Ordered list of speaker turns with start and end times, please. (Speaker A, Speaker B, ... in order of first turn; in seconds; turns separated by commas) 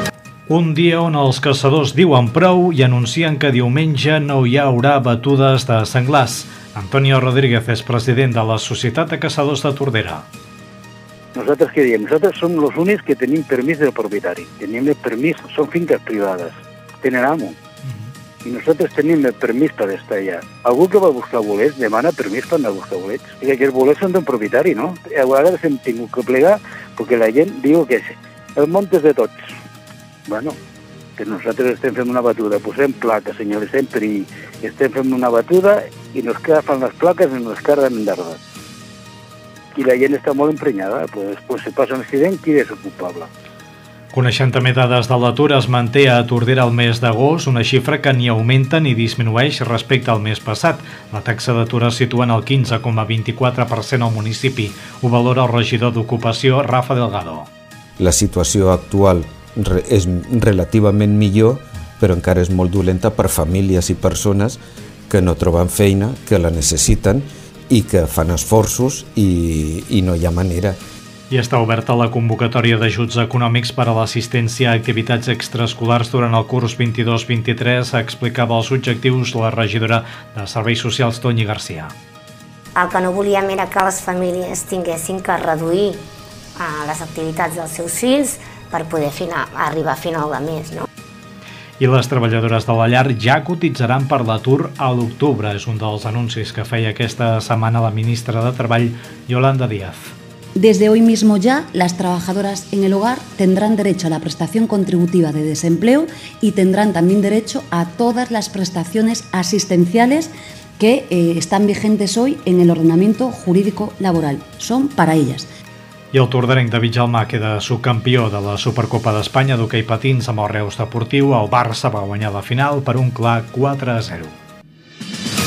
Speaker A: 0.5-10.2, Speaker B: 11.3-17.5, Speaker B: 18.4-29.4, Speaker B: 30.3-30.6, Speaker B: 31.2-38.4, Speaker B: 39.7-43.3, Speaker A: 44.1-57.5, Speaker C: 58.0-64.6, Speaker C: 65.1-70.8, Speaker A: 71.3-81.9, Speaker D: 82.8-86.0, Speaker D: 86.5-90.9, Speaker A: 91.8-100.1, Speaker E: 100.6-115.5, Speaker A: 116.1-124.3